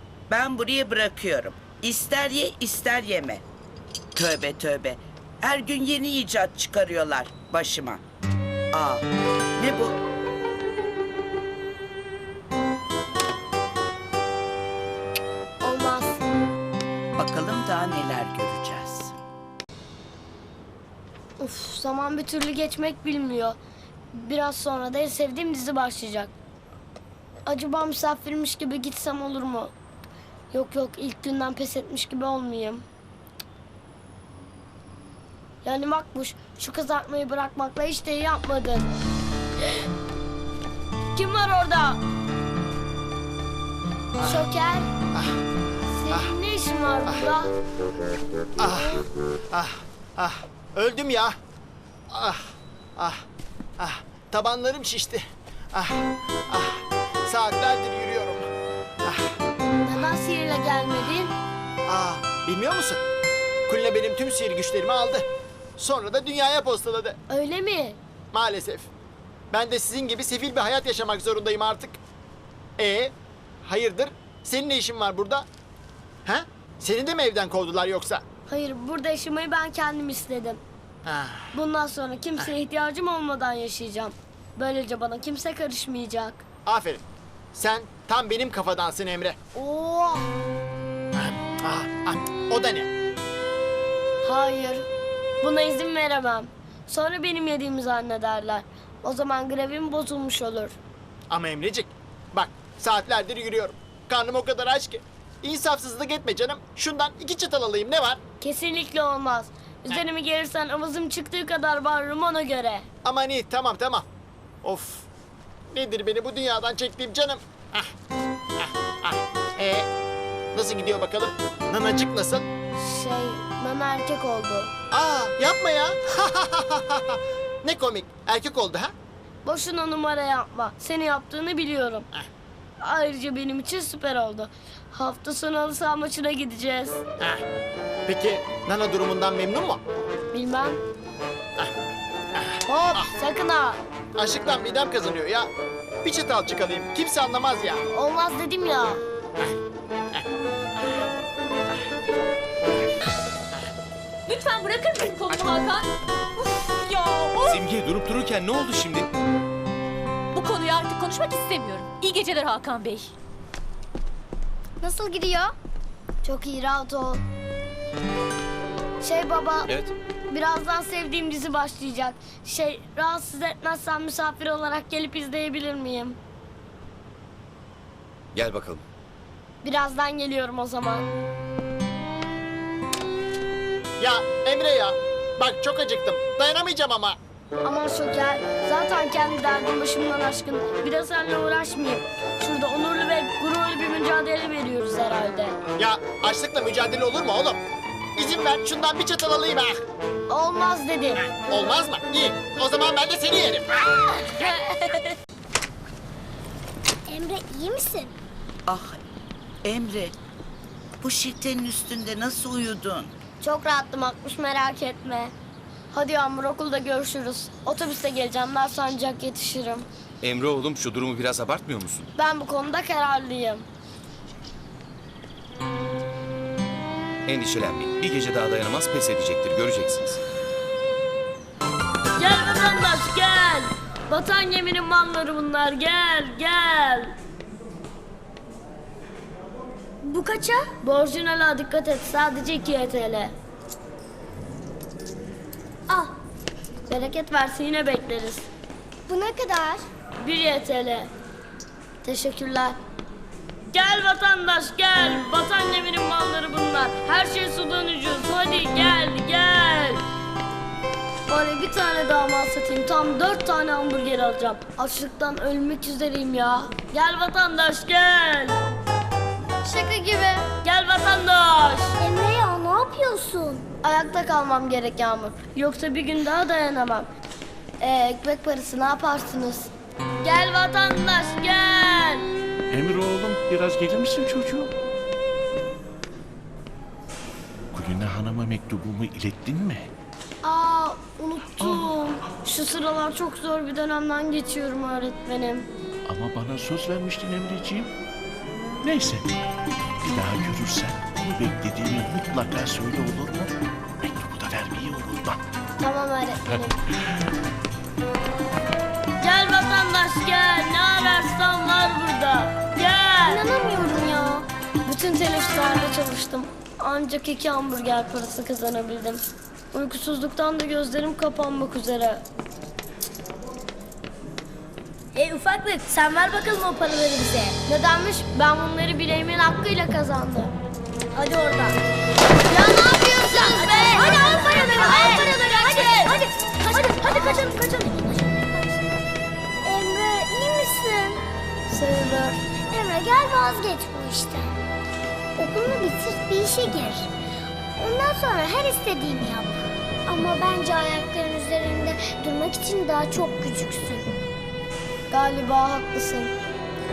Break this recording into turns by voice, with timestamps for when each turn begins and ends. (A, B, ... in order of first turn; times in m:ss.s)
0:00.3-0:03.4 A
0:04.1-0:08.0 A
0:08.7-0:09.1 A
0:09.6-0:10.0 A
0:15.6-0:16.2 B
0:17.2-0:19.2 A
0:21.4-0:23.6 B
0:24.1-0:26.3 B
0:27.4-0:29.7 B
0:30.5-0:32.8 B
0:35.6-0:39.0 B
0:41.1-0:42.0 B
0:44.2-0:44.9 B
0:45.1-0:45.4 C
0:45.9-0:47.5 B
0:48.6-0:51.3 C
0:52.1-0:52.4 C
0:53.0-0:53.2 C
0:53.8-0:55.2 C
0:55.7-0:58.4 C
0:59.0-0:59.3 C
0:59.6-1:01.3 B
1:01.9-1:03.0 C
1:03.7-1:05.2 C
1:05.8-1:07.2 C
1:07.3-1:08.0 B
1:08.3-1:08.9 C
1:09.5-1:12.0 C
1:12.8-1:13.1 C
1:13.6-1:15.4 C
1:16.2-1:18.2 C
1:18.5-1:20.6 B
1:21.0-1:21.5 C
1:21.5-1:26.4 B
1:26.6-1:27.0 C
1:27.5-1:29.4 C
1:29.5-1:30.3 B
1:31.1-1:32.9 C
1:34.2-1:34.8 B
1:35.4-1:40.8 B
1:41.3-1:48.2 C
1:48.4-1:52.9 B
1:53.0-1:54.0 C
1:54.6-1:55.1 C
1:55.7-1:57.9 C
1:58.6-1:59.9 C
2:00.5-2:02.4 C
2:02.8-2:04.7 B
2:04.9-2:08.9 C
2:09.4-2:12.1 B
2:12.8-2:17.0 B
2:18.1-2:19.8 C
2:20.3-2:20.8 B
2:22.4-2:23.1 C
2:22.7-2:23.8 B
2:24.2-2:25.5 C
2:26.0-2:27.8 C
2:27.9-2:29.0 B
2:34.3-2:37.6 D
2:37.4-2:39.1 E
2:40.3-2:43.1 D
2:44.8-2:45.5 F
2:46.2-2:47.2 B
2:49.0-2:49.7 B
2:49.7-2:49.9 E
2:50.3-2:56.2 B
2:58.3-2:58.8 E
2:59.6-3:01.1 B
3:04.0-3:07.2 C
3:07.6-3:15.6 B
3:15.8-3:17.6 C
3:18.2-3:19.8 C
3:20.3-3:21.2 B
3:21.4-3:23.7 C
3:24.0-3:25.1 B
3:27.1-3:28.2 F
3:28.7-3:29.0 A
3:29.6-3:30.1 A
3:31.0-3:33.1 A
3:33.4-3:35.3 B
3:35.9-3:39.9 B
3:40.2-3:42.1 E
3:42.2-3:43.7 B
3:47.2-3:50.2 E
3:52.2-3:57.1 B
4:00.0-4:00.7 F
4:00.8-4:03.3 B
4:06.9-4:08.5 B
4:09.1-4:09.8 F
4:10.2-4:11.1 B
4:12.0-4:12.8 B
4:13.7-4:20.0 B
4:21.3-4:28.6 B
4:29.6-4:30.5 F
4:30.6-4:31.9 B
4:32.0-4:33.6 F
4:33.8-4:37.1 B
4:37.8-4:39.7 B
4:40.2-4:42.2 B
4:42.7-4:44.7 G
4:47.7-4:49.9 G
4:50.4-4:55.7 B
4:51.6-4:51.9 G
4:56.0-4:57.9 G
4:58.8-4:59.3 G
5:00.0-5:05.4 G
5:05.8-5:06.7 B
5:09.2-5:13.4 B
5:13.3-5:14.4 F
5:14.8-5:22.2 B
5:25.1-5:30.5 B
5:31.1-5:31.8 B
5:32.5-5:36.2 B
5:33.3-5:38.7 F
5:39.6-5:41.2 F
5:41.7-5:42.4 B
5:42.7-5:44.5 F
5:45.4-5:47.1 F
5:47.8-5:54.1 F
5:55.1-5:56.3 B